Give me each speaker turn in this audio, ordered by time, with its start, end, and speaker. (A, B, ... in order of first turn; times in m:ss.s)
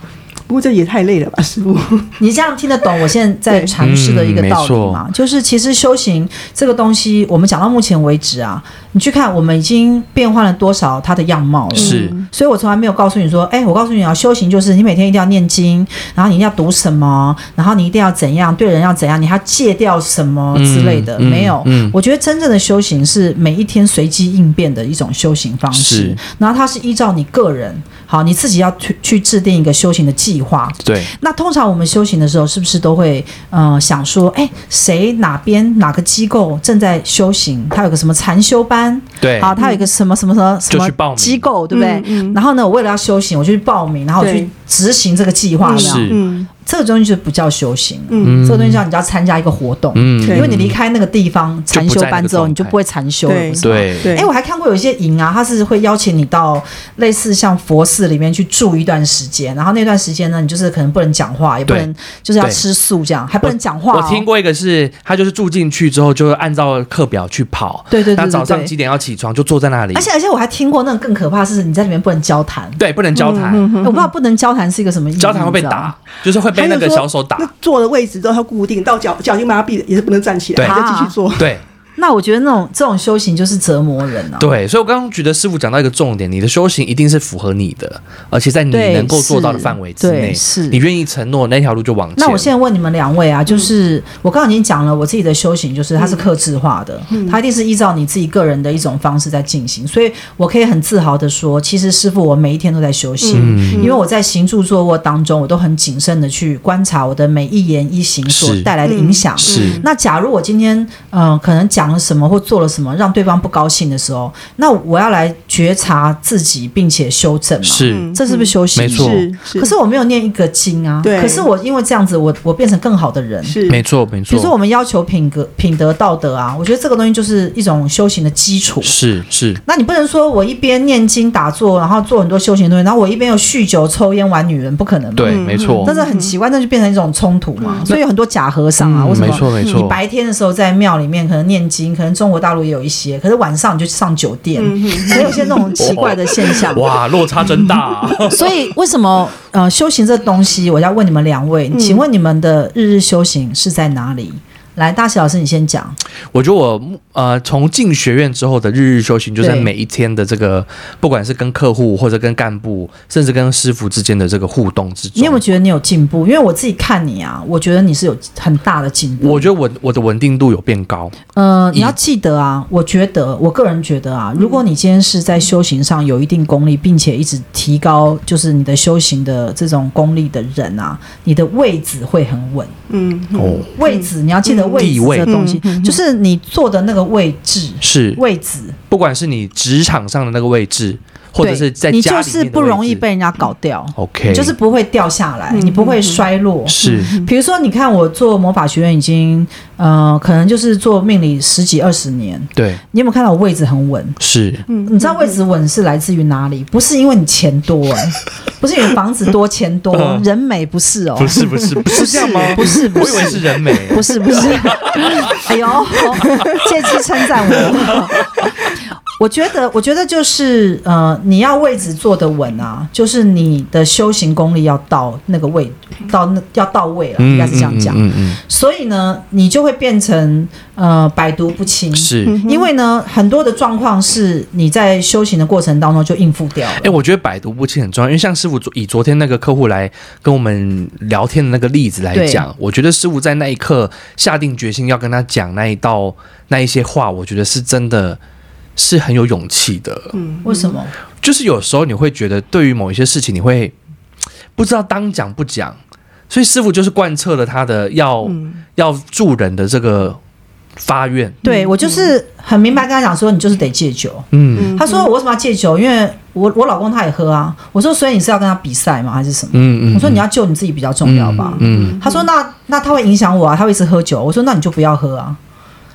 0:00.5-0:02.2 A
0:02.2-1:04.3 B
0:03.5-0:03.7 A
0:03.8-0:05.0 C
0:11.7-0:12.2 C
0:11.7-0:12.3 A
0:20.5-0:22.0 C
0:25.7-0:26.2 C
0:30.8-0:31.1 C
0:39.2-0:39.6 C
0:39.6-0:39.9 A
0:40.7-0:41.5 C
0:41.7-0:42.4 A
0:44.2-0:44.5 A
0:45.6-0:46.5 A
0:45.7-0:46.2 C
0:48.1-0:48.4 A
0:48.2-0:48.8 C
0:50.0-0:50.8 C
0:50.2-0:50.6 A
0:51.7-0:52.8 C
0:53.3-0:54.3 A
0:53.6-0:54.1 C
1:03.4-1:10.1 C
1:07.9-1:08.7 B
1:09.9-1:12.8 B
1:12.8-1:13.7 C
1:13.2-1:14.1 A
1:13.8-1:15.9 B
1:15.2-1:17.5 C
1:16.6-1:16.9 B
1:16.6-1:21.5 A
1:20.6-1:21.2 B
1:21.4-1:21.6 C
1:22.0-1:24.5 B
1:24.4-1:32.5 C
1:28.7-1:30.8 B
1:32.2-2:03.6 B
1:36.0-1:36.3 A
1:37.1-1:37.4 A
1:43.2-1:44.0 A
1:43.3-1:43.9 C
1:48.3-1:48.7 C
1:48.8-1:49.9 A
1:49.4-1:49.8 C
1:57.6-1:58.1 C
1:57.9-1:59.7 A
1:58.8-1:59.3 C
2:01.0-2:01.5 A
2:03.4-2:03.8 A
2:03.7-2:04.5 C
2:04.3-2:09.0 B
2:08.8-2:09.6 C
2:09.7-2:26.9 B
2:15.2-2:15.9 C
2:15.3-2:16.3 A
2:17.6-2:18.0 A
2:18.8-2:20.0 C
2:19.5-2:19.9 A
2:24.6-2:25.8 A
2:25.8-2:28.6 C
2:28.3-2:36.0 B
2:31.7-2:32.0 A
2:36.3-2:45.4 C
2:39.4-2:39.7 B
2:45.2-2:49.5 B
2:49.2-2:51.2 C
2:51.3-3:02.7 B
2:54.4-2:54.6 A
3:02.9-3:06.0 A
3:03.4-3:03.7 C
3:03.8-3:08.8 B
3:04.8-3:05.3 C
3:07.8-3:08.2 C
3:08.9-3:13.0 C
3:11.4-3:24.2 B
3:14.0-3:14.5 C
3:15.5-3:16.3 A
3:16.7-3:17.2 C
3:16.8-3:17.3 A
3:22.6-3:22.8 C
3:24.2-3:24.6 C
3:24.7-3:25.4 A
3:24.8-3:38.2 B
3:29.9-3:30.2 C
3:31.2-3:35.5 C
3:32.0-3:32.8 A
3:36.2-3:36.6 C
3:37.5-3:38.5 C
3:39.2-3:57.0 B
3:47.2-3:48.4 C
3:51.9-3:52.4 C
3:52.2-3:52.7 A
3:56.8-4:08.2 C
4:02.1-4:02.4 B
4:08.8-4:10.2 C
4:10.1-4:10.8 A
4:10.4-4:10.9 B
4:11.2-4:13.7 C
4:14.6-4:15.8 C
4:16.3-4:20.2 C
4:18.2-4:18.6 A
4:20.8-4:21.4 C
4:21.4-4:22.1 A
4:21.4-4:35.4 B
4:24.3-4:24.7 C
4:24.6-4:25.1 A
4:29.5-4:30.2 C
4:31.0-4:32.0 C
4:31.4-4:32.3 A